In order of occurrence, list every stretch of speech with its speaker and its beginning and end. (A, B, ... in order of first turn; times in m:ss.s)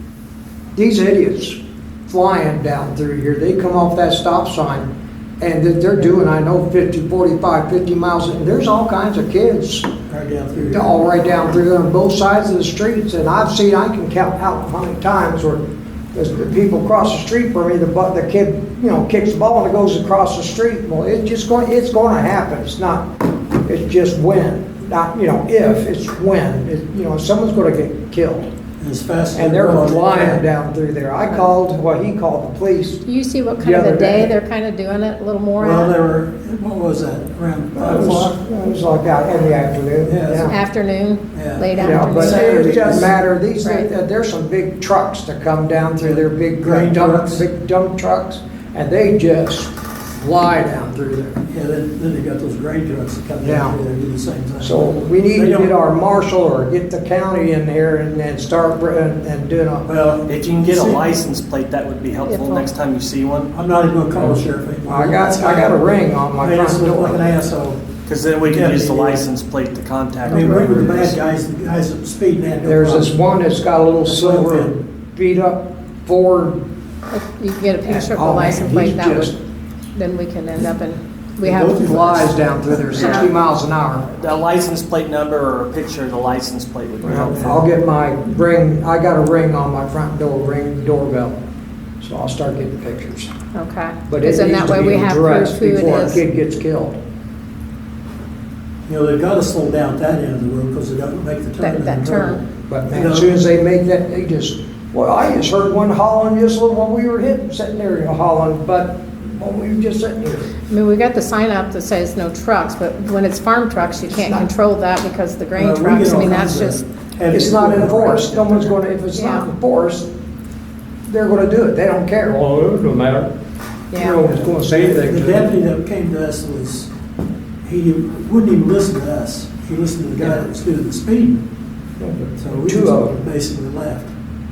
0:00.7-0:04.9 A
0:05.4-0:09.9 A
0:10.1-0:10.9 B
0:10.6-0:15.6 A
0:16.1-0:23.1 A
0:23.6-0:28.5 A
0:28.8-0:30.4 B
0:29.3-0:33.0 A
0:31.2-0:31.5 C
0:33.0-0:36.0 C
0:33.6-0:34.3 A
0:35.6-0:38.4 B
0:37.7-0:40.6 A
0:40.0-0:40.5 B
0:40.4-0:42.8 C
0:41.3-0:43.2 B
0:41.8-0:51.4 A
0:43.6-0:43.9 C
0:46.0-0:47.4 B
0:51.5-0:55.7 B
0:53.4-0:53.8 A
0:54.6-0:59.9 A
0:59.8-1:01.1 B
1:00.2-1:03.5 D
1:02.2-1:02.7 C
1:03.5-1:05.8 B
1:04.8-1:07.3 A
1:06.4-1:07.8 B
1:08.0-1:11.2 D
1:08.4-1:09.2 B
1:10.3-1:13.1 B
1:12.6-1:16.6 A
1:14.0-1:14.8 B
1:17.1-1:19.3 C
1:17.8-1:19.4 A
1:19.9-1:22.1 C
1:21.4-1:22.9 B
1:21.8-1:24.1 A
1:22.9-1:23.3 D
1:22.9-1:23.2 C
1:24.1-1:27.6 D
1:27.0-1:31.4 A
1:32.0-1:33.3 A
1:33.5-1:36.2 C
1:34.1-1:37.0 A
1:38.9-1:43.4 B
1:41.6-1:42.4 C
1:42.7-1:50.5 A
1:50.7-1:56.8 C
1:54.1-1:54.5 A
1:55.5-1:58.8 B
1:57.3-2:00.1 A
1:59.1-1:59.5 C
2:01.1-2:03.3 A
2:03.9-2:04.2 C
2:03.9-2:05.6 A
2:04.5-2:06.9 B
2:07.6-2:11.4 B
2:12.0-2:13.2 A
2:12.4-2:14.1 B